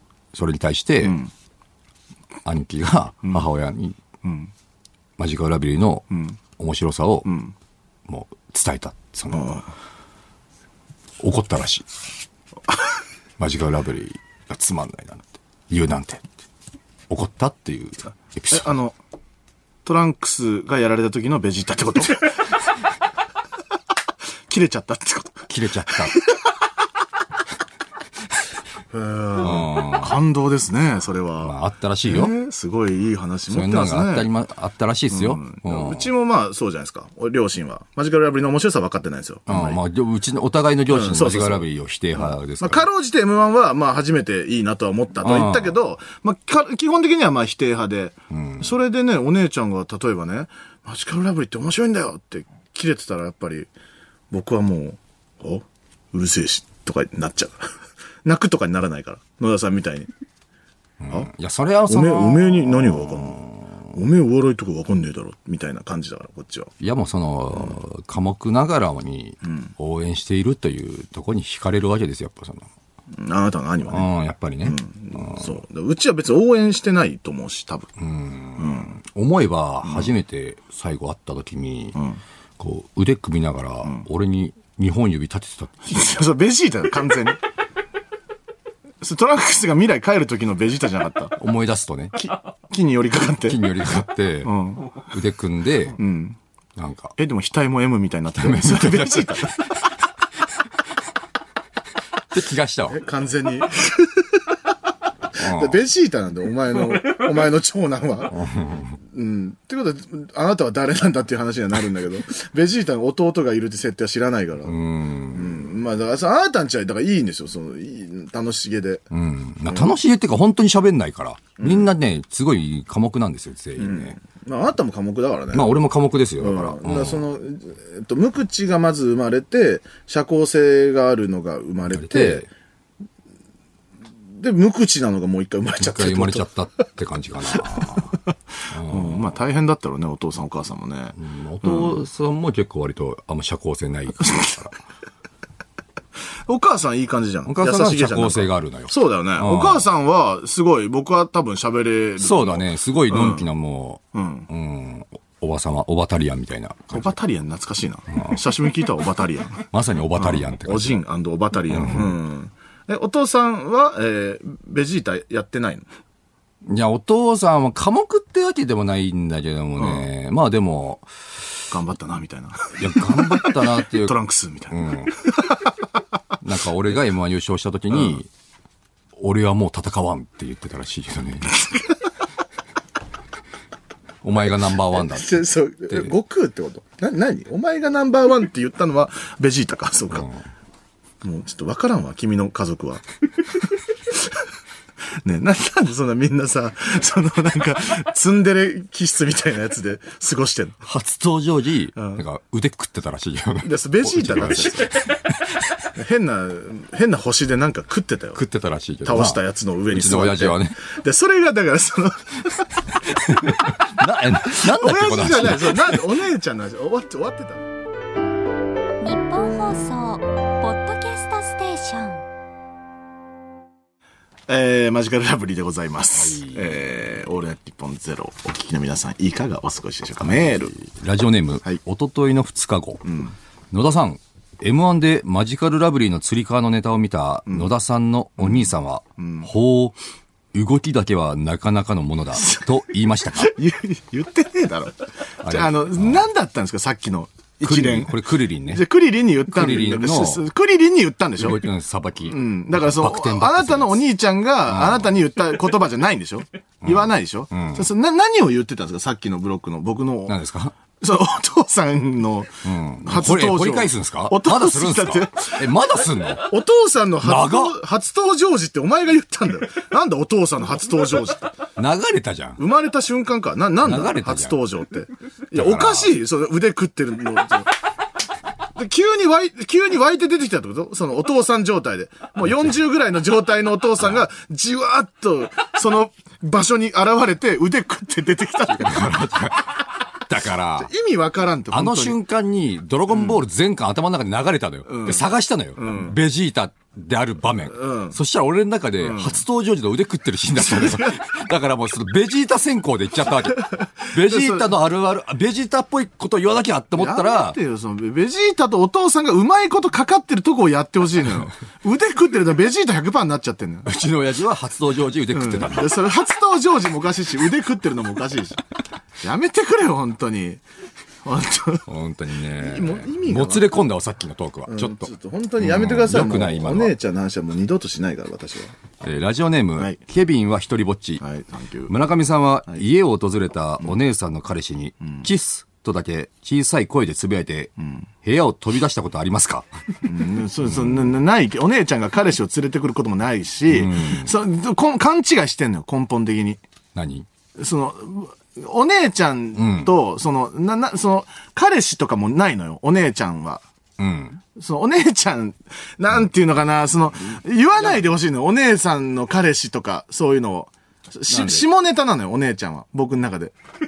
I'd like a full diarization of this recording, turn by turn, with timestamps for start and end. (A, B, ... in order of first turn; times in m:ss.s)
0:00.3-0:01.2 A
0:01.0-0:01.3 B
0:02.4-0:04.0 A
0:04.2-0:04.5 B
0:05.2-0:06.1 A
0:06.1-0:06.4 B
0:06.6-0:07.3 A
0:07.2-0:07.5 B
0:08.1-0:09.6 A
0:09.3-0:09.7 B
0:11.2-0:11.9 A
0:13.4-0:16.2 A
0:17.1-0:18.7 A
0:18.5-0:19.0 B
0:19.8-0:22.4 B
0:24.5-0:26.5 B
0:25.5-0:26.2 A
0:28.9-0:31.6 B
0:29.4-0:30.2 A
0:31.4-0:32.3 A
0:32.1-0:34.3 B
0:33.5-0:36.1 A
0:35.1-0:39.8 B
0:39.5-0:42.9 A
0:40.9-0:53.7 B
0:45.2-0:45.8 A
0:48.3-0:48.7 A
0:54.3-0:57.7 B
0:58.2-1:00.1 B
1:01.0-1:03.7 A
1:01.9-1:06.7 B
1:06.8-1:12.7 A
1:13.1-1:14.1 B
1:13.9-1:15.5 A
1:14.6-1:17.9 B
1:18.0-1:22.0 A
1:18.6-1:18.9 B
1:22.6-1:26.0 A
1:25.9-1:27.4 B
1:29.0-1:31.4 B
1:31.4-1:32.2 A
1:32.2-1:33.7 B
1:33.4-1:36.0 A
1:34.4-1:35.0 B
1:36.0-1:36.4 B
1:36.8-1:37.2 A
1:37.2-1:39.7 B
1:38.4-1:39.6 A
1:42.3-1:43.0 A
1:42.9-1:44.6 B
1:45.4-1:45.8 A
1:45.4-1:48.5 B
1:48.3-1:48.9 A
1:49.1-1:54.8 B
1:54.7-1:55.6 A
1:55.3-1:59.0 B
1:59.1-2:04.2 A
1:59.7-1:59.9 B
2:01.6-2:01.9 B
2:03.8-2:05.7 B
2:05.5-2:07.2 A
2:06.4-2:12.5 B
2:11.9-2:12.5 A
2:14.4-2:16.5 B
2:15.8-2:18.2 A
2:17.5-2:18.0 B
2:18.7-2:19.4 A
2:18.8-2:22.0 B
2:21.2-2:24.8 A
2:24.2-2:24.5 B
2:26.5-2:33.5 B
2:27.5-2:29.9 A
2:32.2-2:37.2 A
2:34.1-2:34.5 B
2:36.9-2:45.9 B
2:39.7-2:41.0 A
2:41.7-2:42.2 A
2:46.7-2:51.1 A
2:49.8-2:50.1 B
2:51.7-2:55.7 B
2:52.8-2:54.2 A
2:54.7-2:55.2 A
2:56.4-2:58.3 A
2:59.2-3:01.6 A
3:01.6-3:01.9 B
3:04.2-3:06.1 A
3:04.9-3:10.3 B
3:11.2-3:13.0 B
3:15.2-3:20.8 B
3:20.8-3:25.2 A
3:22.0-3:22.2 B
3:23.6-3:25.1 B
3:25.9-3:28.4 B
3:28.4-3:30.8 A
3:29.0-3:32.8 B
3:33.1-3:36.1 A
3:34.4-3:37.6 B
3:39.0-3:42.2 C
3:44.5-3:50.8 B
3:46.1-3:46.8 A
3:50.2-3:53.0 A
3:53.0-3:53.3 B
3:53.7-4:00.0 A
3:58.4-3:59.5 B
4:00.5-4:03.6 A
4:03.4-4:11.6 B
4:05.4-4:06.2 A
4:07.6-4:08.8 A
4:09.5-4:10.4 A
4:11.4-4:14.0 A
4:12.3-4:20.4 B
4:14.7-4:15.1 A
4:16.8-4:17.9 A
4:20.3-4:20.8 A
4:21.0-4:25.7 B
4:22.6-4:26.5 A
4:26.4-4:31.6 B
4:27.2-4:27.8 A
4:31.8-4:32.6 A
4:32.6-4:37.7 B
4:33.8-4:34.6 A
4:35.6-4:36.2 A
4:38.8-4:49.3 B
4:48.7-4:50.9 A
4:50.8-4:52.2 B
4:51.7-5:07.6 A
4:53.1-4:53.4 B
4:54.9-4:55.3 B
4:55.8-4:56.2 B
4:57.7-4:58.2 B
4:59.0-4:59.4 B
5:00.6-5:01.2 B
5:03.6-5:04.7 B
5:07.0-5:13.9 B
5:13.9-5:16.0 A
5:15.3-5:18.6 B
5:19.2-5:20.6 B
5:21.2-5:21.9 B
5:21.9-5:26.9 A
5:22.5-5:23.7 B
5:24.7-5:28.8 B
5:29.0-5:31.2 A
5:31.2-5:32.0 B
5:31.9-5:39.7 A
5:40.0-5:46.6 B
5:43.7-5:44.3 A
5:47.0-5:47.3 A
5:47.6-5:53.6 B
5:49.6-5:49.9 A
5:54.0-5:54.4 A
5:54.6-6:03.5 B
6:01.3-6:01.6 A